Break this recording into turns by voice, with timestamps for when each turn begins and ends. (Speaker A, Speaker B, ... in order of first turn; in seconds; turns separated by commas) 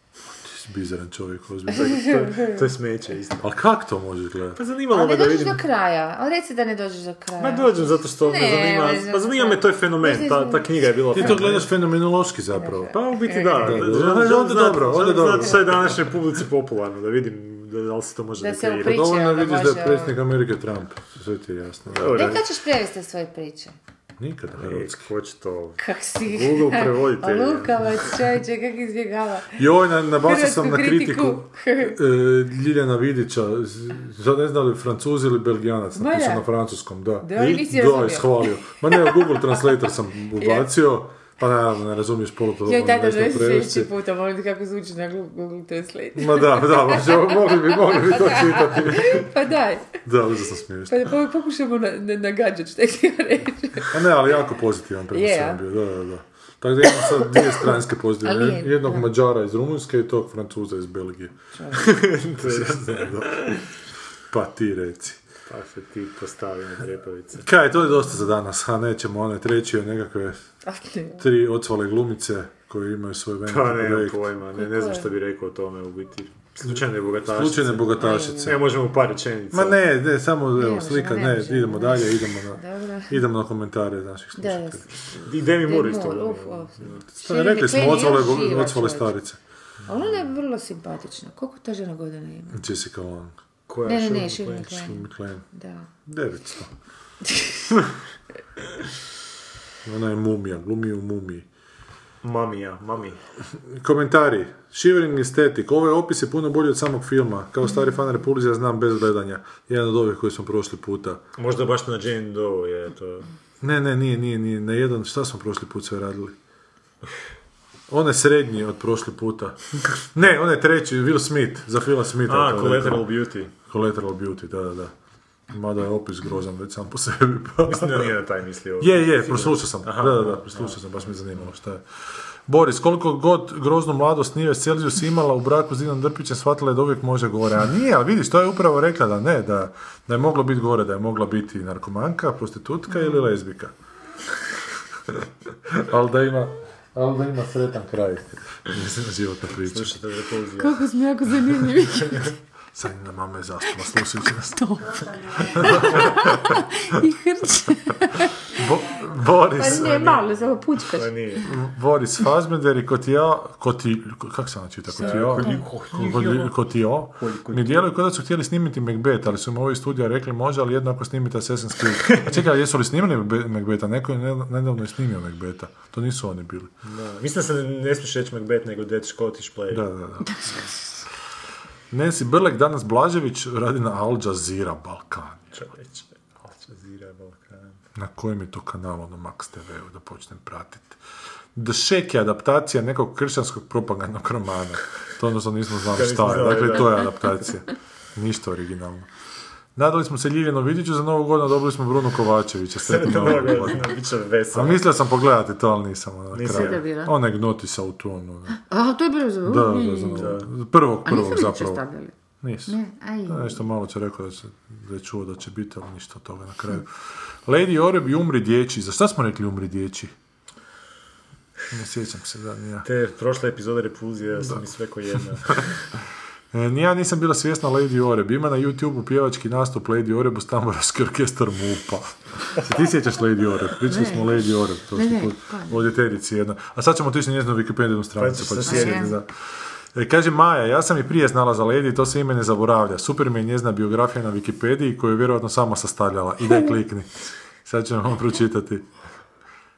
Speaker A: 0.4-2.0, Speaker B: 1.7-3.5, Speaker C: 1.7-2.6, Speaker A: 3.4-4.6, Speaker B: 4.5-5.6, Speaker C: 4.9-10.7, Speaker B: 7.4-11.7, Speaker A: 11.1-16.0, Speaker C: 12.6-13.8, Speaker B: 13.0-19.0, Speaker C: 18.4-20.2, Speaker A: 18.8-22.4, Speaker B: 21.9-22.4, Speaker C: 22.1-23.8, Speaker A: 24.2-25.1, Speaker B: 24.5-28.1, Speaker C: 25.8-29.6, Speaker A: 29.6-43.9, Speaker C: 30.1-32.0, Speaker C: 36.0-36.5, Speaker C: 37.2-39.4, Speaker C: 40.4-40.6, Speaker C: 42.7-50.0, Speaker A: 46.1-49.3, Speaker A: 50.0-51.1, Speaker C: 50.9-54.0, Speaker A: 53.8-61.4, Speaker C: 55.1-55.6, Speaker C: 56.9-57.7, Speaker C: 58.2-59.1, Speaker C: 61.5-61.9, Speaker B: 61.8-63.5, Speaker A: 62.4-63.6, Speaker A: 64.3-65.2, Speaker B: 65.5-67.5, Speaker A: 67.4-70.5, Speaker C: 70.6-71.2, Speaker A: 71.2-74.3, Speaker B: 73.5-79.8, Speaker C: 74.5-75.1, Speaker A: 77.2-78.6, Speaker C: 78.0-78.6, Speaker A: 79.5-84.8, Speaker C: 80.6-83.2, Speaker C: 84.3-84.8, Speaker B: 85.1-87.0, Speaker C: 85.6-89.1, Speaker A: 87.1-89.4, Speaker C: 89.9-92.6, Speaker A: 92.5-93.3, Speaker B: 93.7-94.9, Speaker C: 93.8-95.0, Speaker A: 94.7-95.5, Speaker C: 95.5-95.9, Speaker A: 96.0-96.7, Speaker A: 99.8-101.5, Speaker B: 102.2-103.2, Speaker A: 103.7-111.2, Speaker B: 111.3-113.3, Speaker A: 113.6-116.3, Speaker A: 117.9-123.0, Speaker B: 122.3-123.5, Speaker A: 123.7-124.9, Speaker A: 125.5-128.1, Speaker B: 127.6-130.8, Speaker A: 128.8-131.8, Speaker A: 132.5-143.7, Speaker C: 142.9-143.2, Speaker A: 145.7-150.0, Speaker B: 149.6-150.8, Speaker C: 150.6-152.3, Speaker A: 152.7-154.6, Speaker C: 154.5-158.3, Speaker A: 155.6-156.4, Speaker A: 158.5-160.2, Speaker C: 159.6-161.4, Speaker B: 159.7-161.5, Speaker A: 161.4-176.7, Speaker B: 164.9-167.8, Speaker C: 165.0-165.6, Speaker B: 172.1-172.3, Speaker B: 176.8-179.8, Speaker A: 179.7-180.6, Speaker A: 181.9-185.7, Speaker B: 185.6-187.8, Speaker A: 187.9-191.0, Speaker A: 191.5-199.1, Speaker B: 195.9-197.2, Speaker A: 199.7-203.9, Speaker B: 202.8-204.9, Speaker A: 204.5-208.6, Speaker B: 206.3-206.8, Speaker C: 206.5-207.1, Speaker C: 208.6-210.4, Speaker A: 209.4-211.8, Speaker B: 210.2-210.5, Speaker C: 211.0-212.1, Speaker A: 212.4-220.1, Speaker C: 212.6-213.6, Speaker A: 221.7-222.8, Speaker B: 222.8-225.9, Speaker A: 226.5-239.3, Speaker C: 233.8-235.8, Speaker B: 238.2-239.1, Speaker C: 238.7-239.1, Speaker A: 239.9-248.8